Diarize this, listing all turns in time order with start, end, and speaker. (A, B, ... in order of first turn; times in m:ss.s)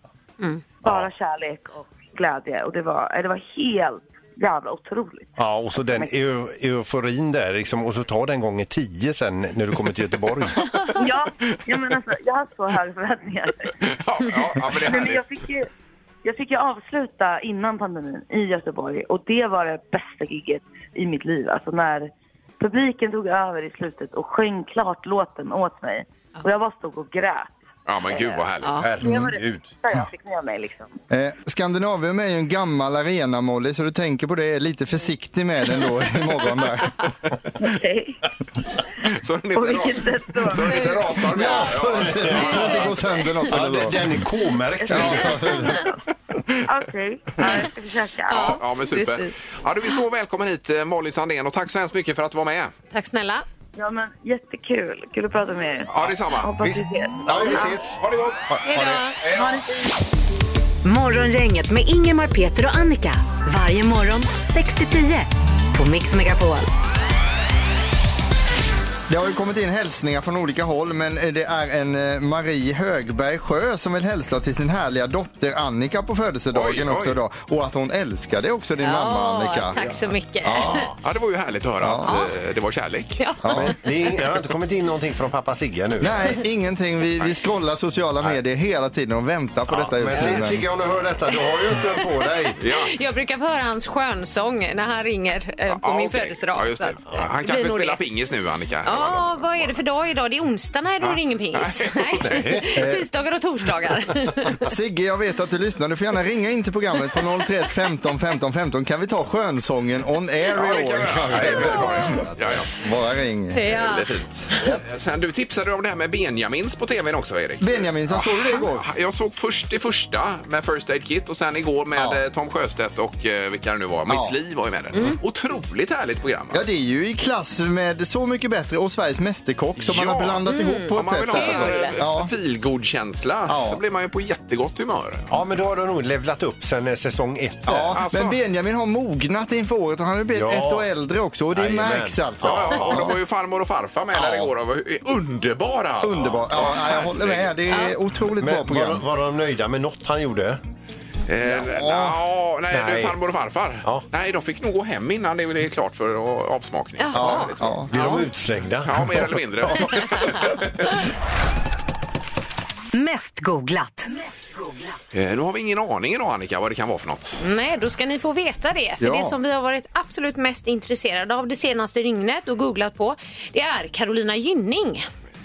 0:00.8-0:05.3 A
0:00.8-0:01.1 B
0:05.4-0:10.7 B
0:10.7-0:11.0 C
0:11.0-0:13.7 A
0:13.8-0:15.3 D
0:14.6-0:15.7 A
0:16.2-0:28.5 A
0:27.9-0:28.8 D
0:28.6-0:28.9 C
0:28.8-0:29.7 B
0:29.0-0:31.0 A
0:31.1-0:37.0 E
0:37.6-0:38.2 A
0:39.0-0:42.7 D
0:39.5-0:41.2 A
0:41.2-0:44.0 E
0:41.4-0:42.9 B
0:42.3-0:43.5 C
0:43.5-0:45.9 B
0:44.9-0:45.8 E
0:45.4-0:45.9 C
0:46.7-0:48.6 A
0:48.3-0:49.3 C
0:48.3-0:52.7 D
0:52.9-0:53.4 C
0:53.8-0:57.8 A
0:55.9-0:56.5 D
0:56.6-0:59.1 B
0:57.3-0:58.5 D
0:58.7-0:59.2 C
0:59.2-0:59.6 D
0:59.3-0:59.9 A
1:00.8-1:06.7 F
1:09.1-1:19.8 E
1:16.5-1:17.2 D
1:18.8-1:20.9 C
1:20.5-1:21.0 B
1:21.0-1:23.2 D
1:21.8-1:22.1 E
1:22.0-1:22.3 C
1:23.2-1:23.8 C
1:23.4-1:23.8 E
1:23.7-1:26.4 B
1:26.0-1:30.7 E
1:29.7-1:32.6 B
1:32.6-1:32.9 D
1:32.7-1:38.0 C
1:35.7-1:39.7 D
1:38.8-1:44.6 C
1:41.0-1:42.2 D
1:42.1-1:42.8 B
1:42.8-1:43.1 E
1:44.6-1:53.6 E
1:50.5-1:52.7 D
1:51.2-1:52.2 B
1:53.5-1:54.1 C
1:53.6-2:06.6 D
1:57.6-1:58.9 E
2:02.0-2:02.2 E
2:04.1-2:04.4 E
2:06.5-2:12.3 E
2:09.8-2:15.3 D
2:10.5-2:12.0 C
2:13.5-2:13.8 E
2:15.3-2:18.0 B
2:17.7-2:23.2 E
2:17.9-2:18.4 D
2:20.3-2:20.9 B
2:21.5-2:23.1 B
2:22.4-2:27.5 D
2:26.0-2:29.1 E
2:27.7-2:28.0 C
2:28.4-2:30.6 B
2:31.3-2:38.3 D
2:31.4-2:32.2 E
2:32.7-2:33.2 B
2:37.0-2:38.2 C
2:37.1-2:37.9 E
2:37.9-2:40.6 B
2:38.8-2:40.7 D
2:42.9-2:44.1 F
2:45.1-2:47.4 D
2:47.4-2:55.1 C
2:49.0-2:49.4 E